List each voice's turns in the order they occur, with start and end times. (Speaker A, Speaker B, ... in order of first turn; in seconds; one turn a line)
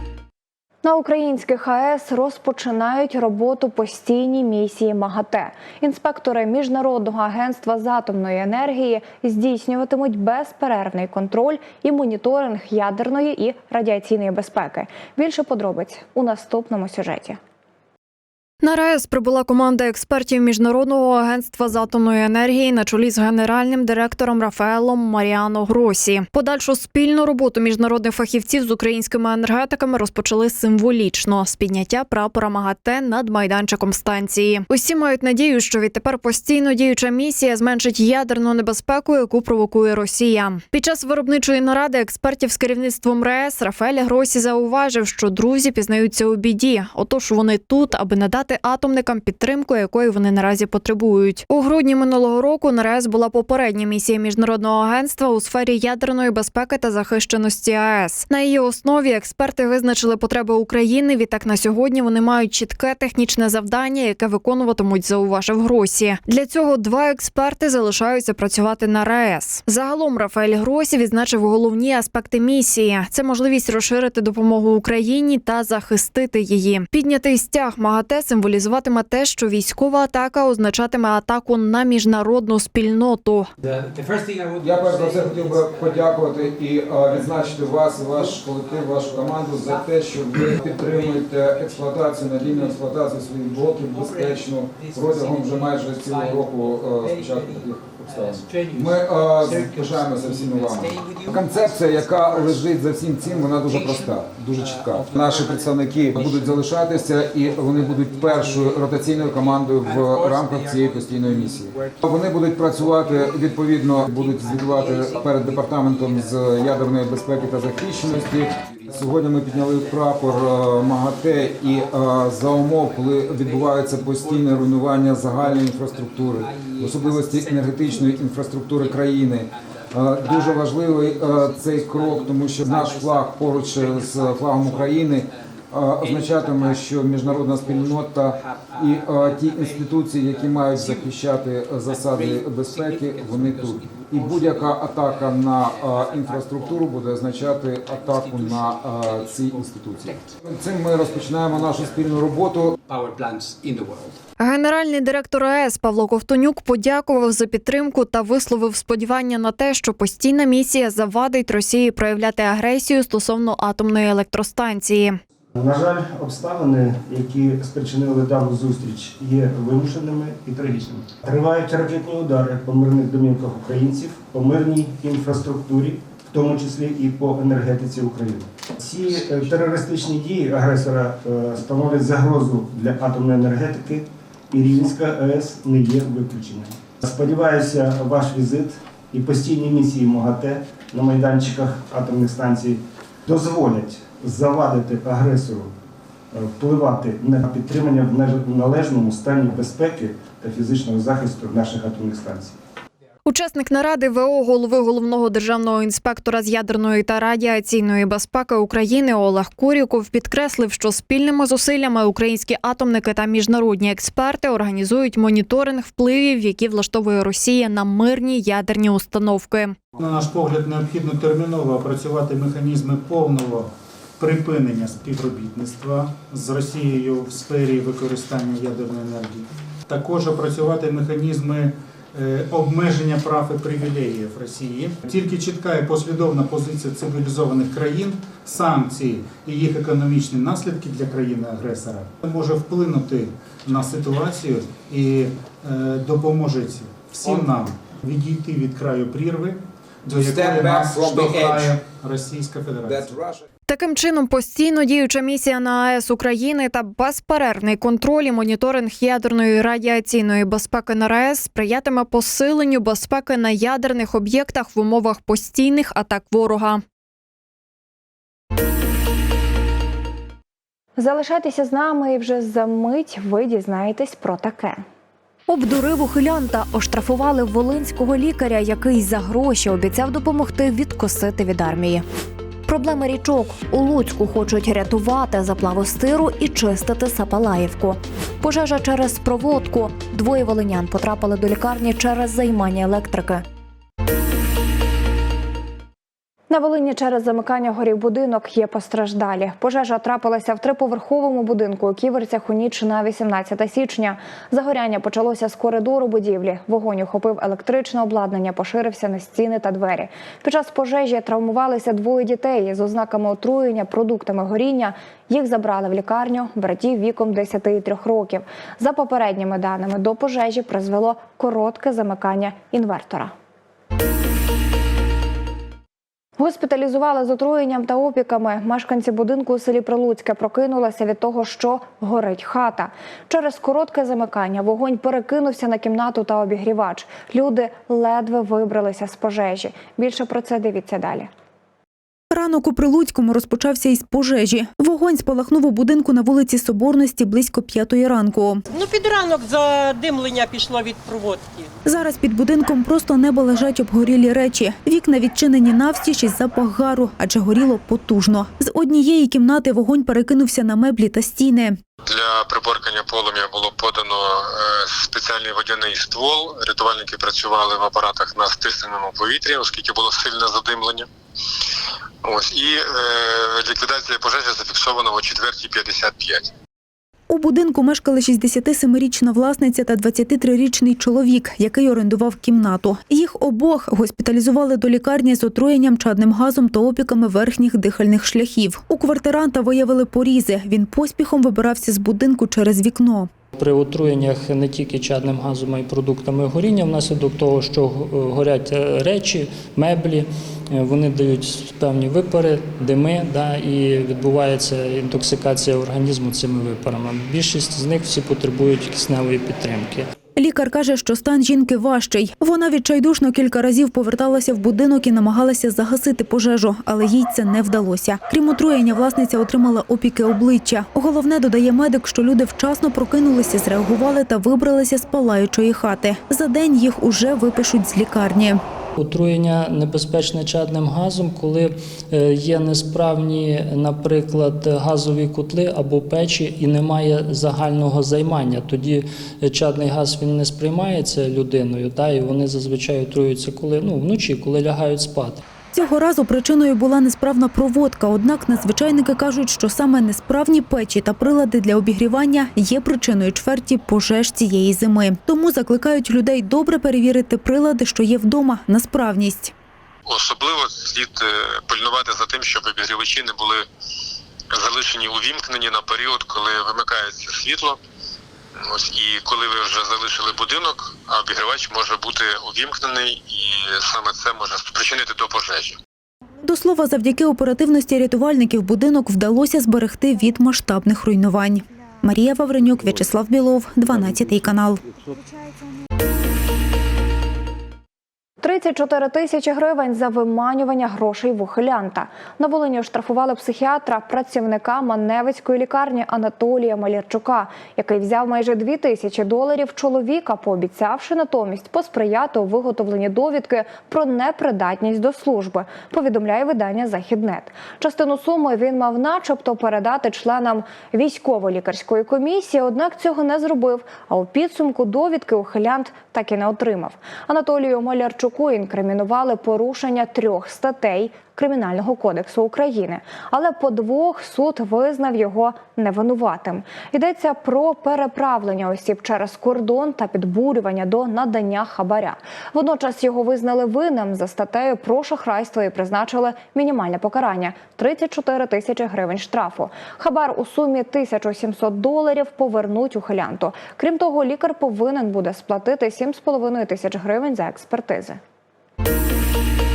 Speaker A: 0.8-17.4
Speaker B: 18.6-83.5
Speaker C: 84.5-152.8
Speaker B: 154.4-165.2
Speaker D: 165.5-195.7
Speaker D: 196.3-202.6
Speaker B: 203.2-219.7
Speaker E: 220.0-253.1
Speaker C: 250.1-251.8
Speaker C: 252.8-253.4
Speaker B: 253.7-266.8
Speaker A: 271.0-274.8
Speaker A: 275.5-282.0
Speaker A: 282.7-293.4
Speaker A: 296.5-323.3
Speaker A: 326.4-341.3
Speaker F: 342.3-348.6
Speaker G: 348.7-351.7
Speaker F: 351.8-361.8
Speaker H: 362.0-371.1
Speaker H: 372.2-376.5
Speaker F: 377.3-393.3
Speaker I: 393.5-410.1
Speaker F: 410.4-428.6
Speaker I: 429.0-445.4
Speaker F: 445.7-459.5
Speaker H: 460.1-463.6
Speaker H: 464.5-467.8
Speaker H: 468.5-475.8
Speaker F: 476.4-484.8
Speaker A: 488.4-548.2